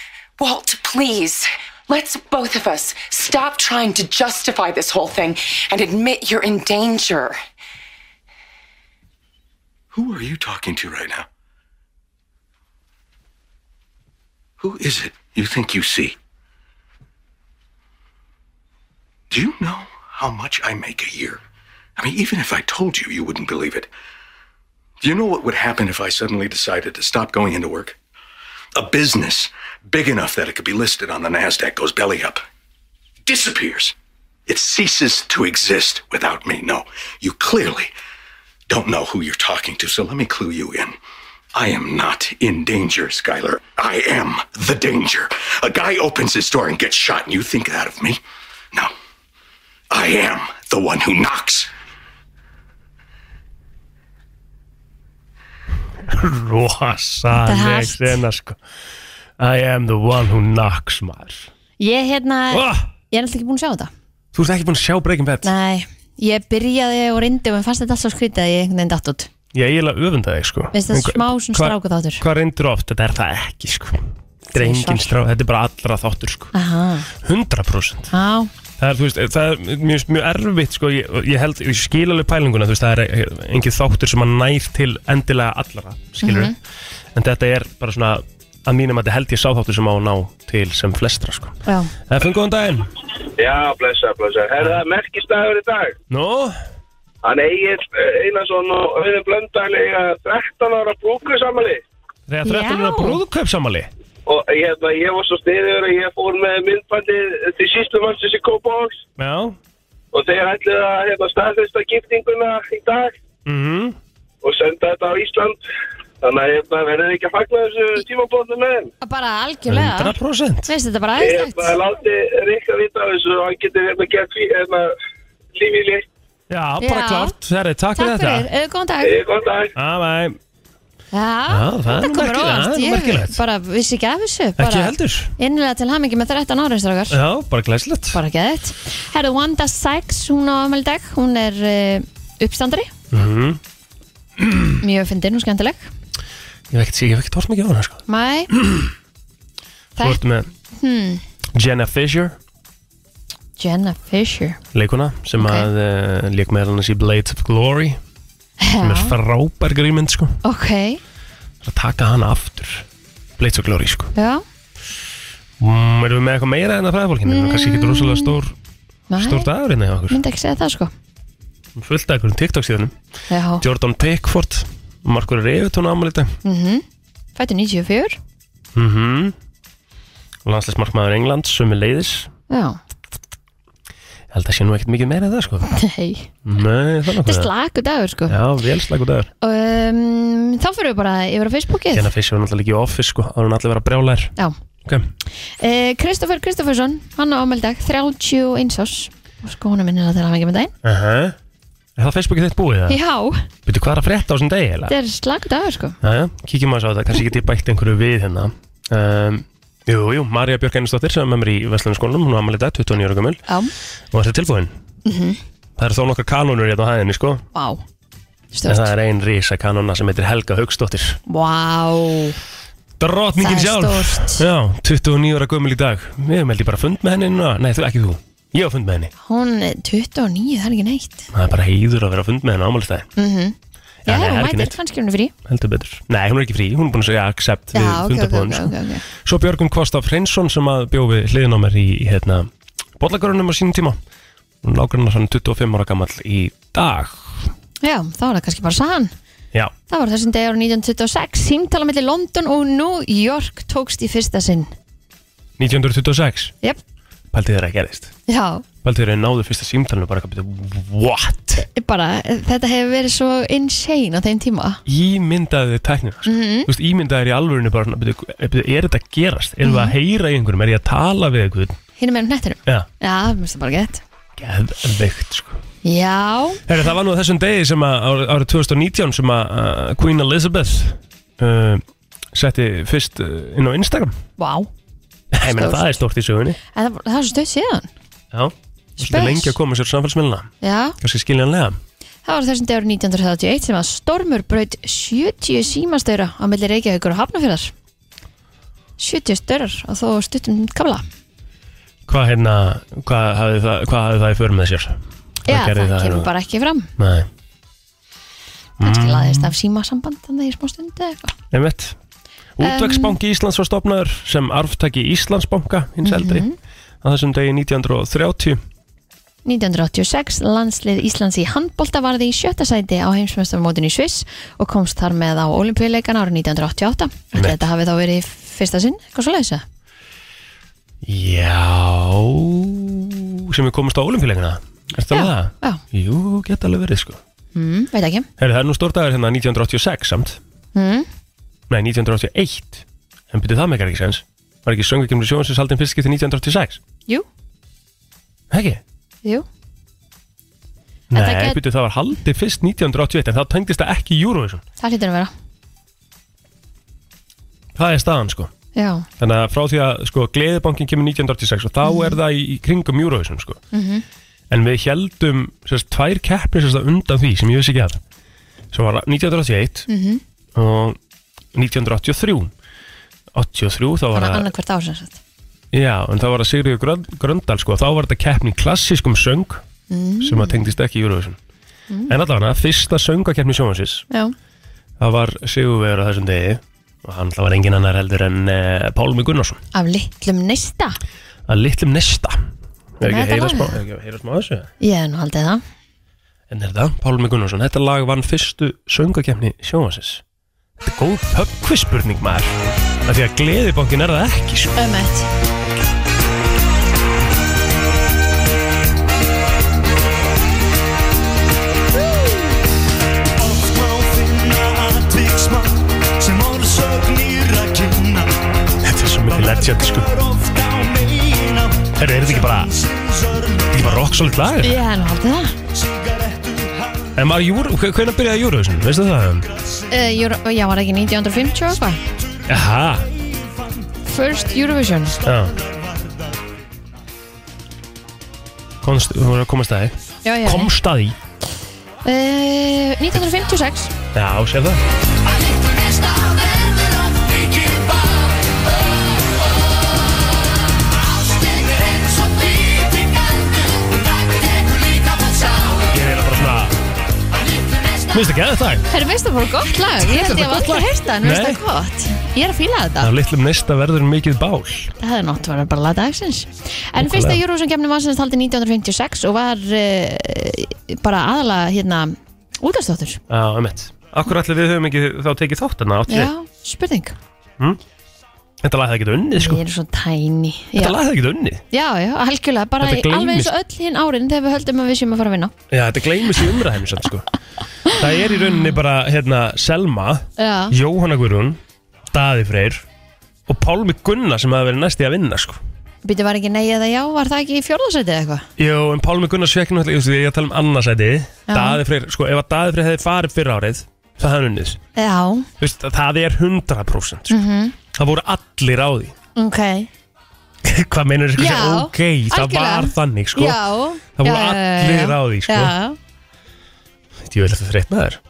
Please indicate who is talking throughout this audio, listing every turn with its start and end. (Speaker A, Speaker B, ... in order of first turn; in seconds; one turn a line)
Speaker A: 0.4-7.4
Speaker B: 9.9-11.3
Speaker B: 14.6-16.2
Speaker B: 19.3-21.4
Speaker B: 22.0-23.9
Speaker B: 25.0-28.0
Speaker B: 28.8-32.4
Speaker B: 33.3-34.0
Speaker B: 34.5-37.9
Speaker B: 38.7-41.0
Speaker B: 41.5-48.2
Speaker B: 49.9-51.7
Speaker C: 56.0-58.6
Speaker D: 57.3-58.2
Speaker C: 59.4-61.5
Speaker D: 61.8-63.9
Speaker C: 62.5-62.9
Speaker C: 64.3-65.5
Speaker D: 65.4-69.3
Speaker C: 69.5-76.5
Speaker D: 70.7-72.2
Speaker D: 74.5-75.2
Speaker D: 76.5-77.1
Speaker C: 77.2-78.1
Speaker D: 78.1-78.5
Speaker C: 78.8-86.6
Speaker D: 86.2-86.5
Speaker C: 87.1-92.9
Speaker D: 91.7-91.9
Speaker E: 93.4-96.0
Speaker C: 96.1-96.6
Speaker E: 97.2-101.8
Speaker C: 102.3-103.9
Speaker D: 102.5-103.2
Speaker E: 104.3-109.0
Speaker C: 109.2-109.6
Speaker E: 110.1-113.2
Speaker C: 113.5-114.0
Speaker E: 114.4-115.6
Speaker E: 116.2-118.9
Speaker D: 119.0-120.2
Speaker C: 119.7-120.7
Speaker D: 120.7-121.7
Speaker E: 121.2-124.9
Speaker E: 125.5-126.0
Speaker C: 126.5-128.5
Speaker D: 126.8-127.4
Speaker D: 128.0-129.2
Speaker E: 129.0-129.7
Speaker C: 129.8-130.4
Speaker D: 131.1-137.2
Speaker C: 131.5-133.4
Speaker C: 134.6-135.3
Speaker C: 137.1-138.2
Speaker D: 138.1-142.9
Speaker C: 143.1-143.6
Speaker C: 144.4-144.8
Speaker D: 144.8-145.9
Speaker C: 146.7-148.9
Speaker D: 148.1-148.5
Speaker C: 150.0-150.5
Speaker D: 150.7-151.2
Speaker C: 151.6-152.4
Speaker D: 153.6-154.6
Speaker C: 154.7-158.0
Speaker D: 155.4-155.7
Speaker D: 158.6-159.2
Speaker C: 158.8-160.4
Speaker D: 160.4-161.0
Speaker C: 161.6-162.9
Speaker C: 163.4-164.1
Speaker D: 164.2-164.4
Speaker C: 165.6-168.6
Speaker D: 167.3-168.4
Speaker D: 169.1-169.5
Speaker C: 169.2-170.2
Speaker D: 170.1-170.9
Speaker C: 171.8-172.9
Speaker D: 173.3-173.6
Speaker C: 173.6-176.4
Speaker D: 176.4-176.8
Speaker D: 177.4-178.2
Speaker C: 178.7-179.3
Speaker C: 180.4-182.3
Speaker D: 182.5-182.8
Speaker C: 184.3-185.7
Speaker D: 185.7-186.3
Speaker C: 186.4-187.5
Speaker D: 187.2-188.3
Speaker C: 188.3-189.3
Speaker D: 189.4-192.1
Speaker C: 191.9-194.3
Speaker D: 195.6-200.7
Speaker C: 200.8-201.4
Speaker C: 202.0-203.0
Speaker D: 202.9-203.5
Speaker C: 203.7-204.9
Speaker D: 204.9-206.0
Speaker C: 206.0-213.4
Speaker D: 213.5-213.7
Speaker C: 214.1-214.7
Speaker D: 215.1-215.4
Speaker C: 215.8-217.4
Speaker D: 217.5-217.8
Speaker D: 218.5-218.9
Speaker C: 218.7-221.2
Speaker D: 221.3-222.4
Speaker C: 223.0-229.1
Speaker D: 223.4-224.4
Speaker D: 229.2-231.3
Speaker C: 231.3-233.1
Speaker D: 233.2-233.6
Speaker C: 234.1-234.8
Speaker D: 234.1-235.3
Speaker C: 235.4-244.0
Speaker D: 237.7-239.1
Speaker C: 244.6-247.5
Speaker D: 247.8-249.1
Speaker D: 249.9-254.7
Speaker C: 255.6-256.5
Speaker C: 257.3-258.1
Speaker D: 258.3-258.6
Speaker C: 258.8-261.6
Speaker D: 261.6-264.8
Speaker C: 264.9-271.8
Speaker D: 266.2-266.7
Speaker D: 269.6-269.9
Speaker D: 272.0-274.0
Speaker C: 274.4-275.6
Speaker D: 275.8-276.6
Speaker C: 276.7-284.2
Speaker D: 284.4-284.7
Speaker C: 285.3-286.6
Speaker D: 285.5-285.9
Speaker D: 286.7-287.9
Speaker C: 288.3-291.8
Speaker D: 289.0-289.5
Speaker D: 290.6-291.0
Speaker D: 292.2-297.7
Speaker D: 299.0-301.0
Speaker C: 302.1-306.3
Speaker D: 305.5-306.9
Speaker C: 307.0-307.3
Speaker C: 308.8-309.5
Speaker D: 308.8-311.4
Speaker C: 311.5-312.0
Speaker C: 312.6-316.5
Speaker D: 312.6-313.2
Speaker D: 316.0-316.6
Speaker C: 317.0-318.6
Speaker D: 319.4-329.6
Speaker C: 327.3-327.6
Speaker C: 331.0-337.2
Speaker D: 335.1-335.8
Speaker D: 337.6-338.3
Speaker C: 338.4-340.4
Speaker D: 340.7-341.1
Speaker C: 341.7-346.8
Speaker C: 348.5-348.8
Speaker C: 351.1-354.6
Speaker D: 351.1-351.6
Speaker D: 354.8-355.3
Speaker C: 357.8-358.5
Speaker D: 358.8-359.1
Speaker C: 359.2-363.6
Speaker D: 361.8-362.2
Speaker D: 363.7-364.1
Speaker C: 364.5-368.0
Speaker C: 368.7-369.9
Speaker D: 369.9-370.2
Speaker C: 370.6-371.0
Speaker C: 371.5-372.5
Speaker C: 373.3-374.5
Speaker D: 374.1-375.2
Speaker C: 375.7-379.6
Speaker D: 379.9-380.6
Speaker C: 380.2-381.4
Speaker C: 382.1-384.1
Speaker C: 385.0-389.6
Speaker D: 389.7-391.0
Speaker C: 391.5-392.4
Speaker C: 393.0-394.7
Speaker D: 393.0-393.8
Speaker D: 394.8-395.6
Speaker C: 396.5-400.2
Speaker C: 400.8-404.8
Speaker D: 404.8-405.3
Speaker F: 413.4-418.3
Speaker C: 418.8-420.1
Speaker F: 419.3-423.9
Speaker C: 421.9-422.7
Speaker C: 423.7-424.8
Speaker D: 424.6-425.6
Speaker F: 425.7-427.1
Speaker C: 427.2-429.5
Speaker D: 429.9-432.0
Speaker C: 432.5-433.1
Speaker F: 433.1-433.8
Speaker D: 434.1-435.2
Speaker C: 435.2-435.5
Speaker F: 435.3-436.4
Speaker C: 438.8-441.2
Speaker D: 440.2-440.7
Speaker D: 442.0-443.9
Speaker C: 444.1-444.8
Speaker F: 447.2-447.8
Speaker F: 455.0-455.3
Speaker C: 455.9-456.8
Speaker C: 458.1-458.9
Speaker D: 458.9-463.1
Speaker C: 460.0-461.6
Speaker C: 463.0-464.9
Speaker D: 465.0-473.2
Speaker C: 467.0-467.4
Speaker C: 473.3-476.3
Speaker D: 476.1-477.2
Speaker C: 478.6-479.6
Speaker D: 479.4-481.0
Speaker C: 480.8-481.6
Speaker D: 481.7-485.5
Speaker C: 482.8-483.5
Speaker C: 485.7-487.3
Speaker C: 487.9-491.6
Speaker D: 490.4-490.8
Speaker C: 492.1-492.8
Speaker C: 493.5-495.6
Speaker D: 496.0-498.5
Speaker C: 498.6-504.8
Speaker D: 501.5-501.8
Speaker D: 505.0-505.5
Speaker C: 505.6-507.4
Speaker D: 507.3-507.8
Speaker C: 507.9-509.1
Speaker D: 509.4-509.9
Speaker C: 510.6-513.6
Speaker D: 511.4-516.0
Speaker C: 514.2-515.8
Speaker C: 517.2-518.2